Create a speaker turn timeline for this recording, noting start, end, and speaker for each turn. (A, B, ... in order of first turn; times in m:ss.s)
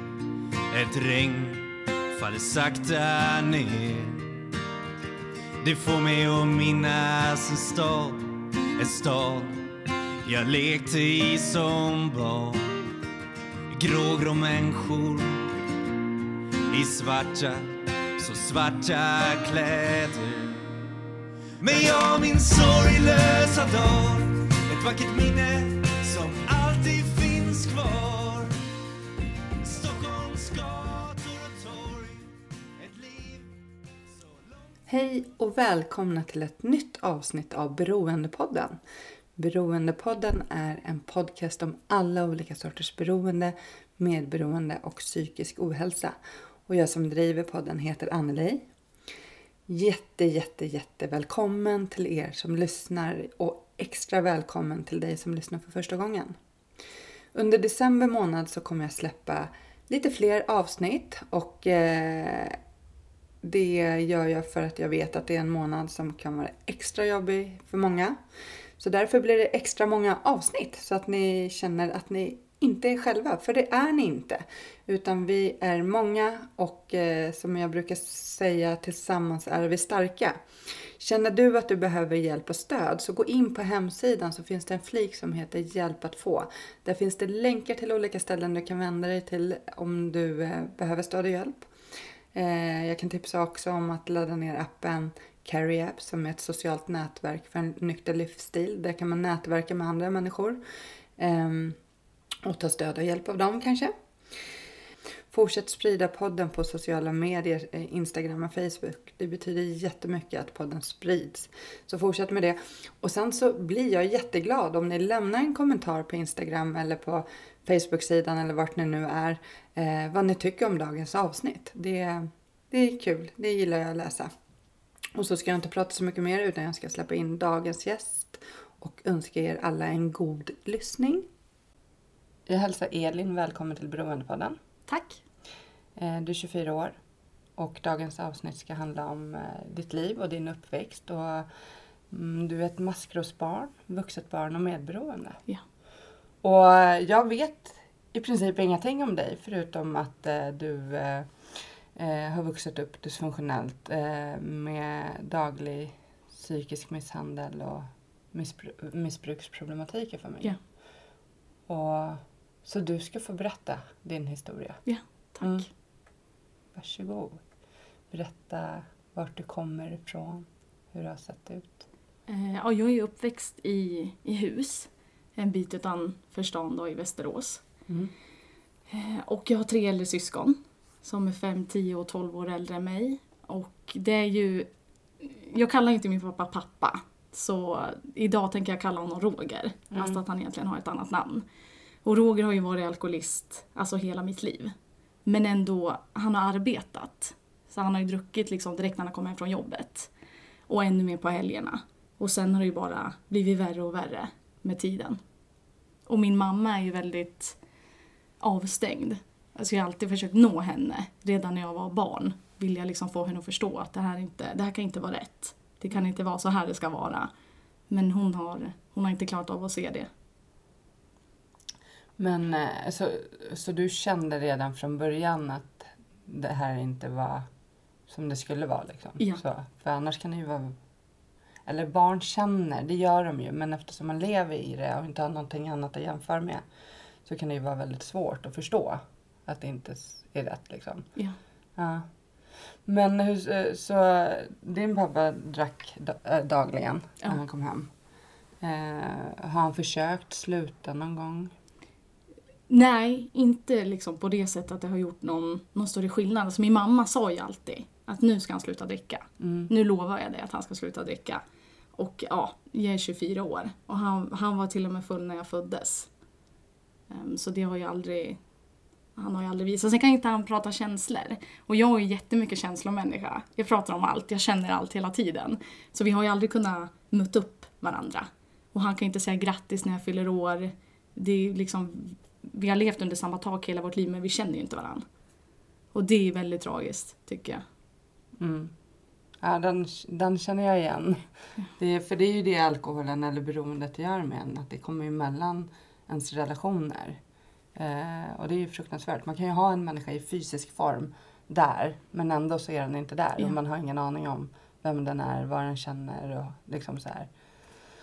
0:00.7-0:04.4 A
0:05.6-0:09.6 A
0:10.2-0:12.8 A
0:13.7-0:15.5 A
0:16.7-0:20.8 A
0:21.6-0:28.5 A
0:29.6-0:32.3 A
0:32.8-0:33.5 A
0:34.1-0:34.6 A
0:34.9-0:38.8 B
0:39.4-0:46.2 B
0:46.7-0:48.7 B
0:49.7-0:56.4 B
0:57.3-1:02.6 B
1:03.4-1:08.2 B
1:08.8-1:20.4 B
1:21.0-1:31.7 B
1:32.3-1:40.6 B
1:41.2-1:41.8 B
1:42.4-1:43.9 B
1:45.3-2:04.3 B
2:05.2-2:11.3 B
2:12.5-2:14.6 B
2:14.9-2:15.2 C
2:16.0-2:17.0 B
2:17.6-2:21.5 B
2:22.1-2:25.4 B
2:26.4-2:40.6 B
2:41.7-2:44.8 B
2:44.8-2:45.7 C
2:45.4-2:45.7 B
2:46.8-2:47.4 B
2:48.1-2:51.9 B
2:52.3-2:57.6 C
2:57.9-2:58.1 B
2:58.9-3:04.7 C
3:05.2-3:11.5 C
3:12.0-3:14.7 C
3:15.3-3:20.1 C
3:20.7-3:25.2 C
3:26.1-3:27.6 C
3:28.4-3:37.3 C
3:37.9-3:40.1 C
3:42.2-3:47.5 B
3:48.1-3:50.8 B
3:51.6-3:56.6 B
3:57.2-4:01.1 B
4:01.8-4:02.1 B
4:02.8-4:07.9 B
4:08.6-4:11.5 B
4:12.7-4:21.4 C
4:19.4-4:19.7 B
4:22.0-4:26.1 C
4:27.1-4:28.4 C
4:29.2-4:45.0 C
4:45.9-4:47.6 C
4:48.4-4:48.7 B
4:49.4-4:57.2 B
4:57.8-5:07.3 B